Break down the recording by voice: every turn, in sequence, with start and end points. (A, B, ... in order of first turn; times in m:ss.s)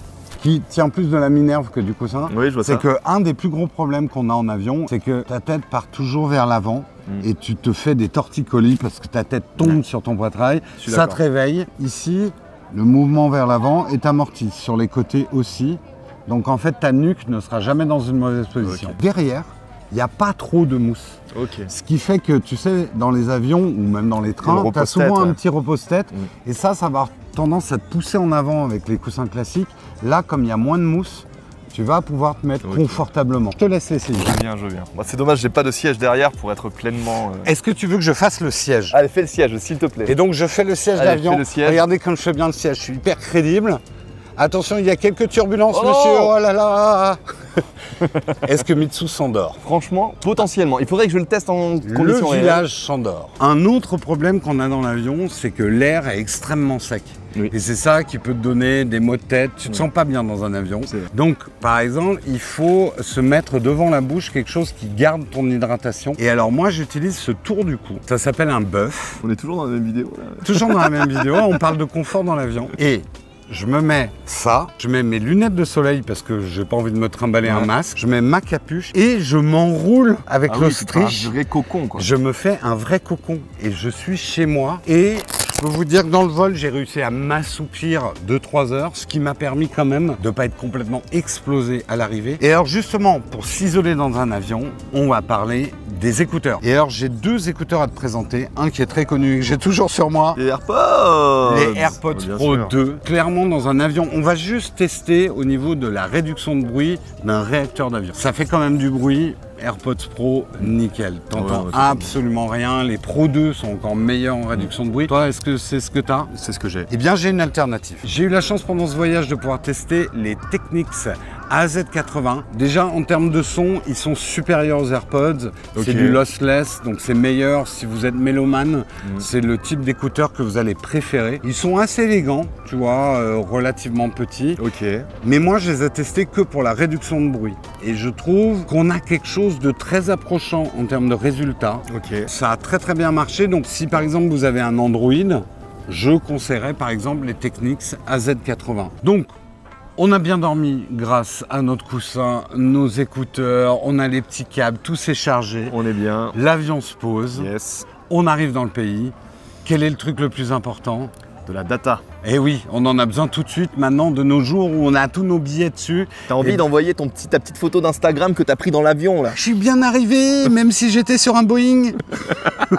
0:00.4-0:34.4 A
0:02.3-0:02.9 B
0:10.8-0:11.2 B
0:18.6-0:19.0 B
0:21.3-0:21.7 B
0:24.4-0:25.4 B
0:32.6-0:33.0 B
0:34.1-0:37.5 B
0:37.4-0:39.0 A
0:38.9-0:40.2 B
0:40.1-0:43.8 A
0:41.0-0:41.8 B
0:44.4-0:47.2 A
0:45.7-0:46.3 B
0:48.0-0:48.4 B
0:48.4-0:49.6 A
0:49.6-0:52.6 B
0:51.8-1:09.2 A
1:09.2-1:11.6 B
1:10.4-1:21.3 A
1:20.5-1:22.1 B
1:22.0-1:40.4 A
1:40.4-1:42.7 B
1:41.4-2:14.6 A
1:51.3-1:52.1 B
1:56.4-1:56.9 B
2:05.7-2:06.2 B
2:14.6-2:15.1 B
2:15.2-2:29.3 A
2:21.9-2:22.3 B
2:30.0-2:35.8 A
2:35.7-2:36.4 B
2:36.3-2:37.5 A
2:37.3-2:37.9 B
2:38.0-2:39.1 A
2:39.6-2:41.1 A
2:41.4-2:42.0 B
2:42.2-2:46.6 A
2:46.3-2:49.4 B
2:49.3-2:52.3 A